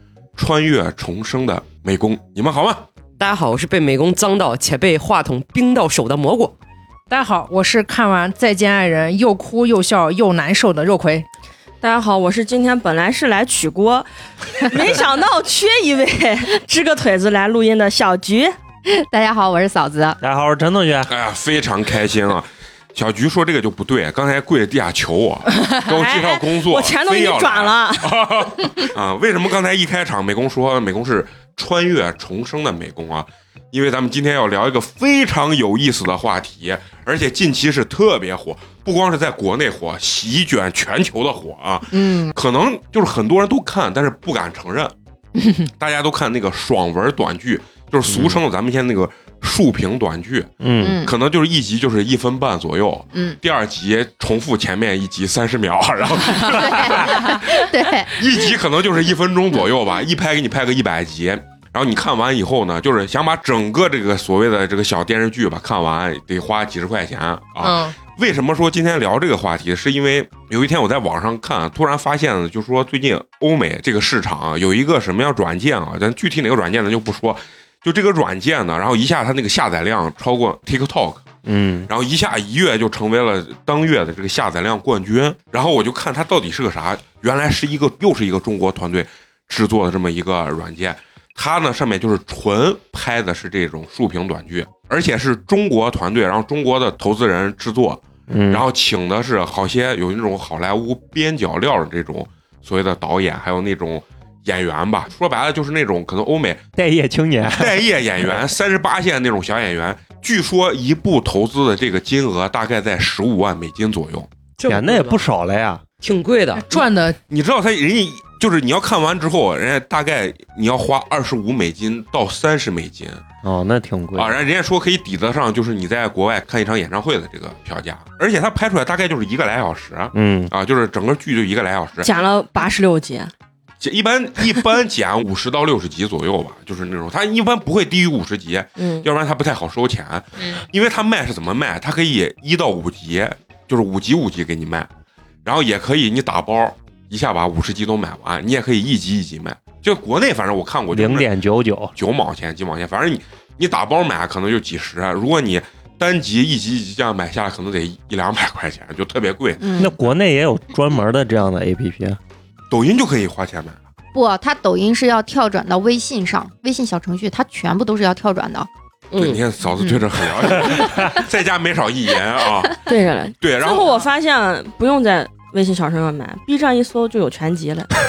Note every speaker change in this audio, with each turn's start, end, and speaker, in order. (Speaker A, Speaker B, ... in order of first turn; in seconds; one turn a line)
Speaker A: 0.3-2.9
Speaker B: 3.2-6.5
Speaker C: 7.1-11.2
Speaker D: 11.8-18.6
Speaker E: 18.9-20.2
Speaker F: 20.2-21.1
Speaker A: 21.1-44.9
Speaker D: 25.9-28.2
Speaker E: 41.9-42.3
Speaker A: 45.6-81.3
Speaker F: 48.0-48.4
Speaker F: 50.6-51.0
Speaker E: 50.8-51.1
Speaker E: 53.1-53.4
Speaker E: 56.4-58.1
Speaker C: 67.6-67.9
Speaker F: 81.4-81.9
Speaker A: 81.9-106.7
Speaker F: 98.3-98.6
Speaker F: 106.8-108.5
Speaker A: 107.5-114.3
Speaker B: 114.6-115.2
Speaker F: 114.7-115.8
Speaker B: 116.0-116.8
Speaker C: 116.6-117.2
Speaker A: 117.3-123.2
Speaker F: 123.4-124.4
Speaker A: 124.2-132.1
Speaker F: 130.1-130.5
Speaker D: 132.0-133.3
Speaker A: 133.8-144.9
Speaker D: 138.8-139.1
Speaker A: 145.4-151.3
Speaker F: 150.9-151.9
Speaker A: 151.9-159.6
Speaker E: 159.6-160.0
Speaker F: 159.8-162.2
Speaker A: 162.7-163.8
Speaker E: 164.1-168.7
Speaker B: 169.1-169.4
Speaker A: 169.1-172.8
Speaker F: 170.7-171.0
Speaker D: 172.9-177.9
Speaker A: 173.4-174.0